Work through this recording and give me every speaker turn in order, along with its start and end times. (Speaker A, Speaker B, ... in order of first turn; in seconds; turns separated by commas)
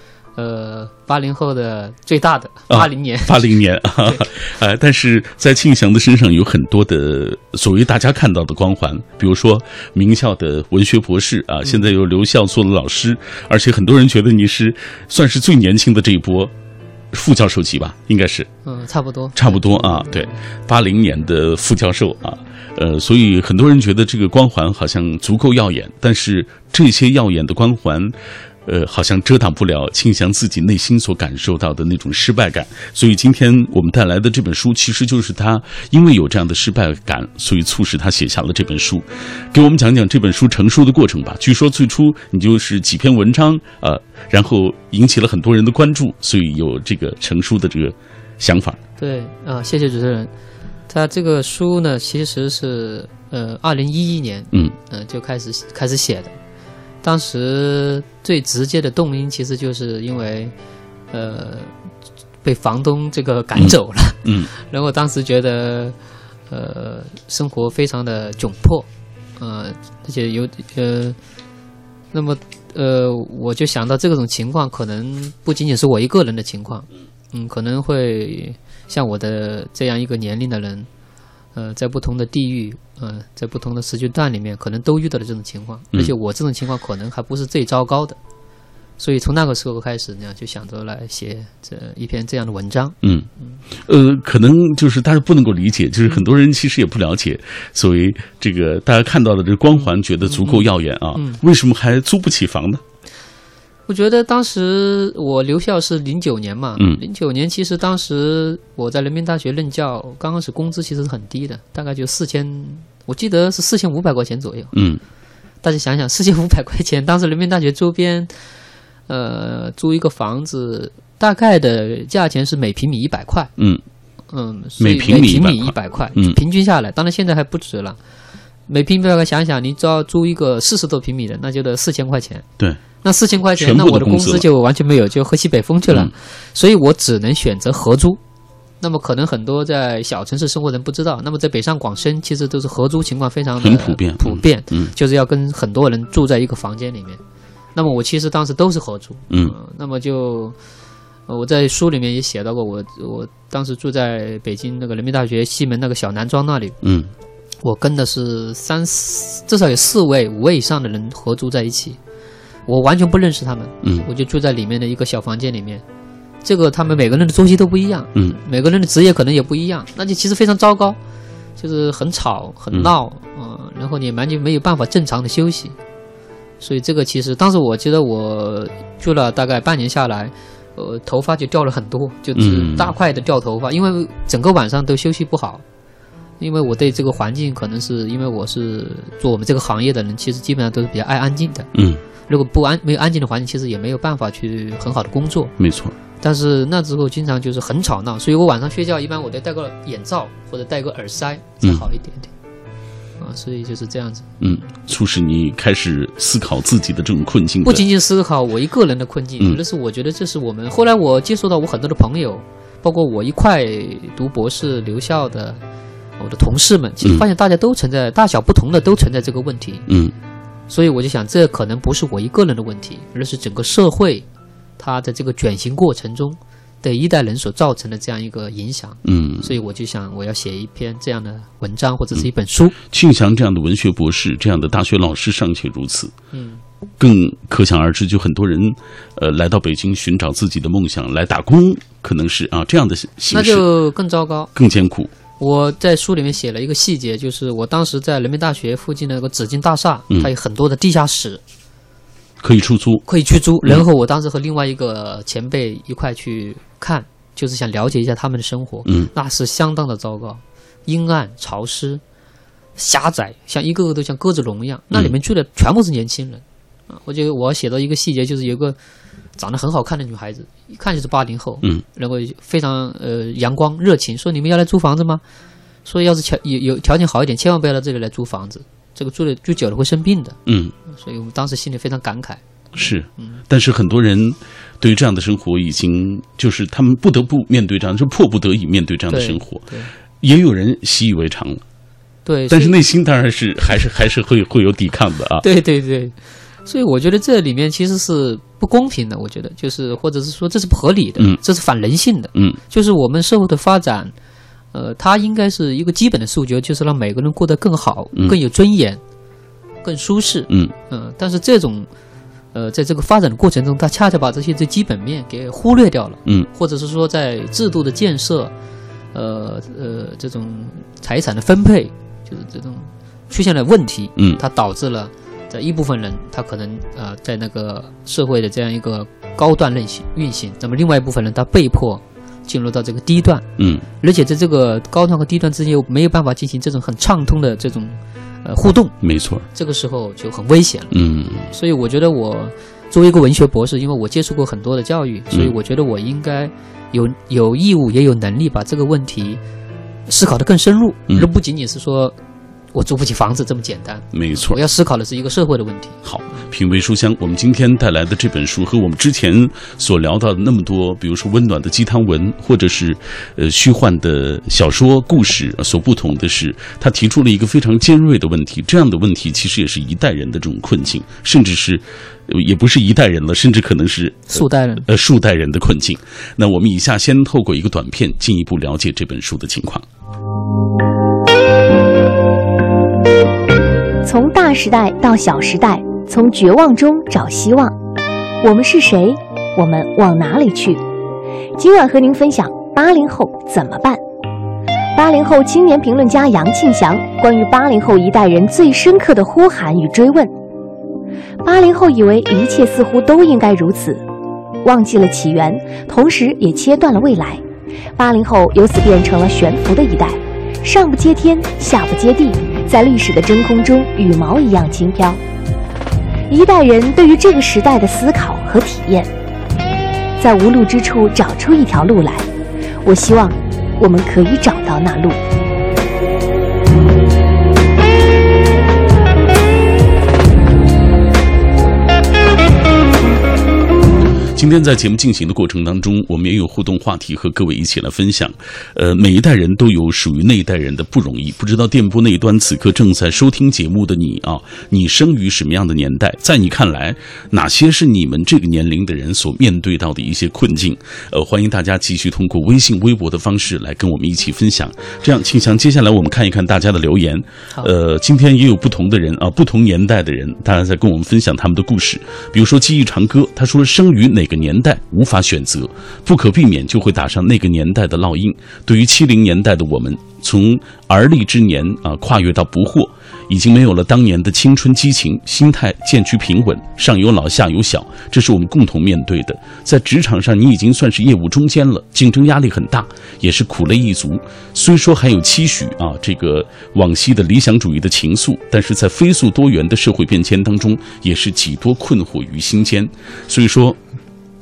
Speaker A: 0.3-3.5, Speaker B: 2.7-16.5, Speaker B: 17.1-18.5, Speaker A: 18.6-20.2, Speaker B: 19.4-48.8, Speaker A: 49.0-50.3, Speaker A: 50.9-56.3, Speaker A: 57.0-60.5, Speaker A: 61.1-61.7, Speaker A: 62.4-65.9, Speaker B: 63.5-64.5, Speaker A: 66.5-68.9, Speaker A: 69.4-71.2, Speaker A: 72.1-80.9, Speaker A: 81.5-88.2, Speaker A: 89.0-93.6, Speaker B: 93.8-102.8, Speaker A: 100.2-101.4, Speaker A: 103.9-114.7, Speaker B: 114.7-115.0, Speaker A: 115.6-118.3, Speaker A: 119.1-123.5, Speaker A: 124.3-128.0, Speaker B: 124.8-126.4, Speaker A: 128.7-132.4, Speaker A: 133.0-138.2, Speaker B: 133.6-134.4, Speaker A: 138.8-147.2, Speaker B: 143.6-144.9, Speaker A: 147.7-150.6, Speaker B: 149.3-149.5, Speaker A: 151.3-156.8, Speaker B: 156.8-157.1, Speaker A: 157.6-162.0, Speaker A: 162.7-165.8, Speaker A: 166.4-171.0, Speaker A: 171.6-175.8, Speaker A: 176.6-185.6, Speaker B: 182.3-182.9, Speaker A: 186.4-191.7, Speaker B: 191.7-192.0, Speaker A: 192.3-195.5, Speaker B: 195.6-195.9, Speaker A: 196.2-202.3, Speaker A: 203.2-204.4, Speaker B: 204.4-207.8, Speaker A: 207.6-215.6, Speaker A: 216.2-219.8, Speaker B: 219.9-220.1, Speaker A: 220.7-224.2, Speaker A: 224.8-232.7, Speaker B: 229.0-229.5, Speaker B: 232.8-236.1, Speaker A: 236.3-236.6, Speaker B: 237.0-243.6, Speaker A: 243.3-244.5, Speaker B: 244.5-245.1, Speaker A: 245.4-251.4, Speaker B: 252.4-253.0, Speaker A: 253.1-262.0, Speaker A: 262.8-268.8, Speaker A: 269.4-275.2, Speaker A: 275.8-280.4, Speaker B: 280.5-280.7, Speaker A: 280.9-282.4, Speaker B: 282.7-289.6, Speaker A: 289.1-289.9, Speaker B: 290.2-291.6, Speaker A: 292.2-292.8, Speaker B: 292.5-295.4, Speaker A: 295.4-304.1, Speaker A: 304.7-309.0, Speaker A: 309.8-311.9, Speaker A: 312.5-318.5, Speaker A: 319.1-333.5, Speaker B: 333.6-333.8, Speaker A: 334.0-338.9, Speaker B: 339.0-339.4, Speaker A: 339.5-340.9, Speaker B: 340.9-341.5, Speaker A: 341.5-349.4, Speaker A: 350.1-352.1, Speaker A: 352.7-356.4, Speaker B: 354.1-354.6, Speaker B: 356.0-379.8, Speaker A: 374.3-374.9, Speaker C: 384.0-387.8, Speaker C: 388.4-390.8, Speaker C: 391.6-394.0, Speaker C: 394.9-400.3, Speaker C: 401.4-404.0, Speaker C: 404.6-407.4, Speaker C: 407.9-415.2, Speaker C: 416.3-419.1, Speaker C: 420.2-422.3, Speaker C: 422.8-425.2, Speaker B: 434.3-493.8